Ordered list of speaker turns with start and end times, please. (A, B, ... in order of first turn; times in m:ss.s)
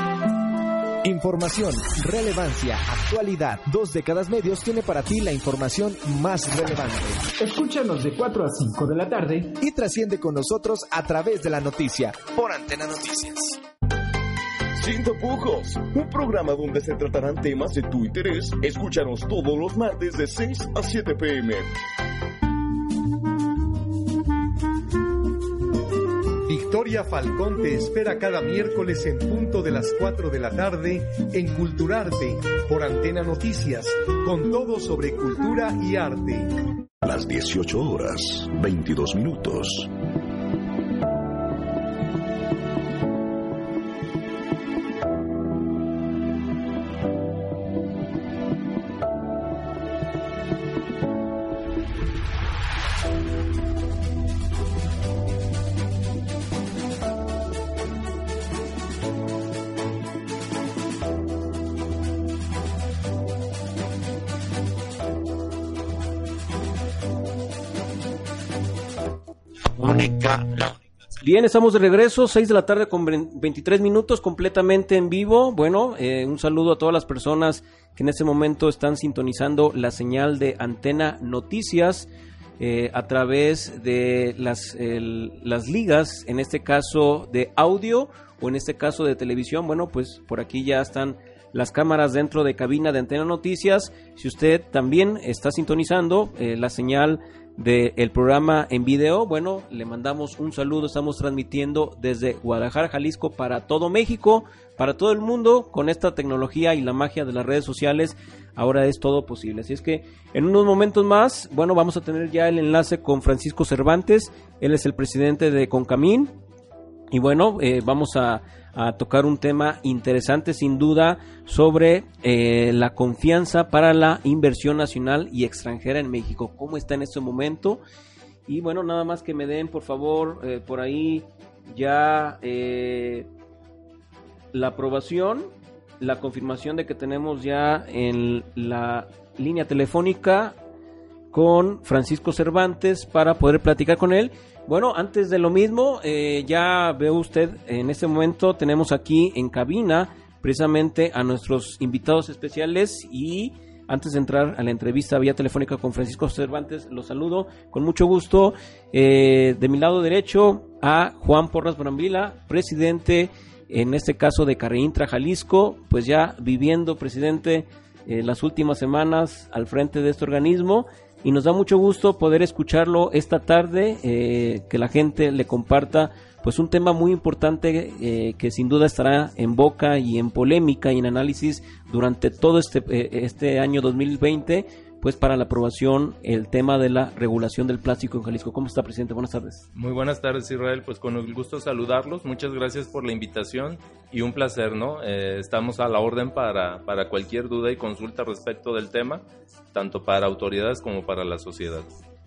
0:01.0-0:07.2 A
0:07.4-0:09.6 B
0:09.6-0:13.6 A
0:14.8-0:21.7 C
0:26.4-0:36.6 D
0:37.0-0:39.9 E
1:11.2-1:22.1 F
1:22.6-1:56.3 F
1:57.1-2:07.8 F
2:08.5-2:13.3 F
2:14.5-2:15.5 F
2:16.0-2:20.6 F
2:21.3-3:09.6 F
3:09.7-3:19.2 G
3:19.7-3:21.9 G